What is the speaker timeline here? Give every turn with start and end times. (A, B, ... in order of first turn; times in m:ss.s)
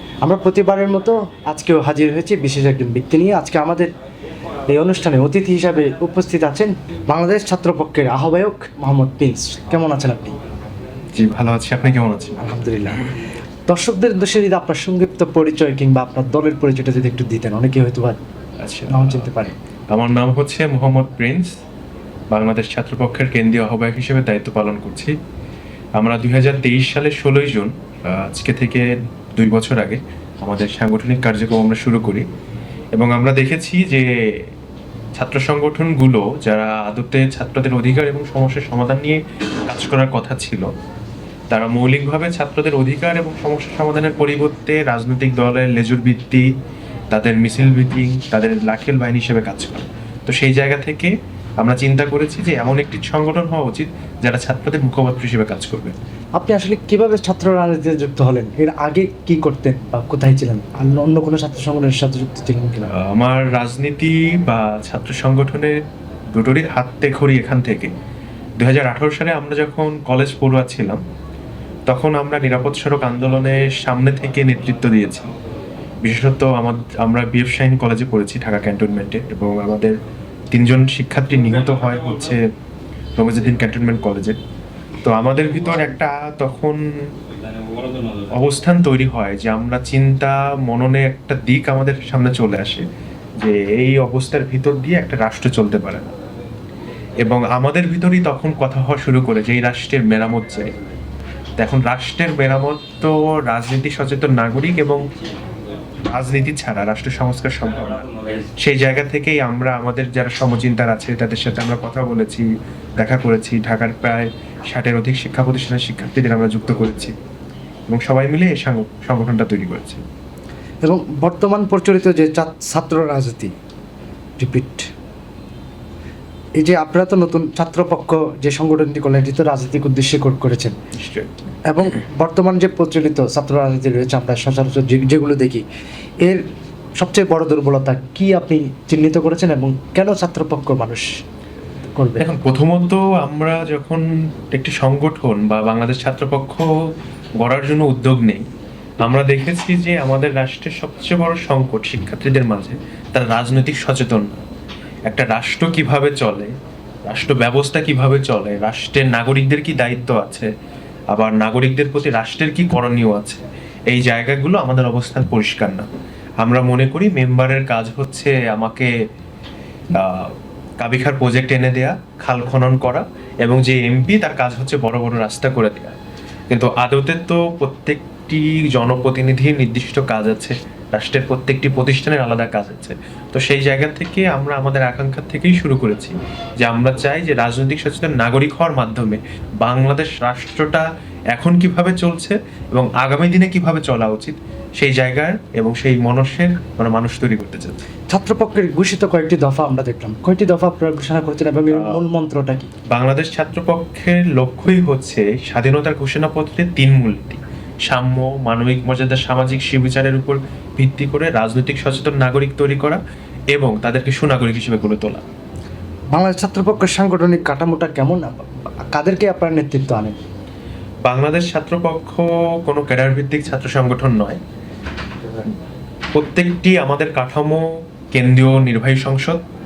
0:00.2-0:03.9 A
0:04.7-0:10.3 A
0:11.1-0:12.4 B
0:12.4-0:13.1 A
0:13.7-0:18.2 A
0:18.6-0:19.3 B
0:18.9-0:19.5 A
0:19.9-0:21.5 B
0:22.3-0:25.1 B
0:26.0-0:32.2 B
0:32.9-0:34.4 B
0:35.2-0:40.7 B
0:41.5-0:46.4 B
0:47.1-0:56.0 B
0:56.4-1:02.9 A
1:02.9-1:05.8 B
1:06.3-1:07.9 B
1:08.6-1:11.0 B
1:11.9-1:15.2 B
1:16.0-1:19.9 B
1:20.5-1:22.4 B
1:23.2-1:24.4 B
1:25.0-1:26.8 B
1:28.4-1:32.8 B
1:33.4-1:36.1 B
1:37.2-1:40.7 B
1:41.6-1:45.0 B
1:46.1-1:48.0 B
1:48.6-1:52.4 B
1:53.0-1:57.1 B
1:57.9-2:00.0 B
2:00.8-2:03.5 A
2:04.4-2:04.9 A
2:06.6-2:10.8 A
2:11.0-2:11.3 B
2:11.7-2:15.6 A
2:17.0-2:21.1 A
2:22.0-2:22.2 A
2:22.2-2:26.7 B
2:27.4-2:28.4 B
2:29.0-2:34.4 B
2:35.1-2:36.5 B
2:37.1-2:40.5 B
2:41.1-2:45.9 B
2:46.4-2:48.9 B
2:49.9-2:55.9 B
2:56.5-3:17.8 B
3:18.1-3:22.7 A
3:21.7-3:22.0 B
3:22.9-3:33.0 B
3:33.5-3:35.2 B
3:36.1-3:40.2 A
3:41.0-3:44.4 B
3:46.1-3:49.4 B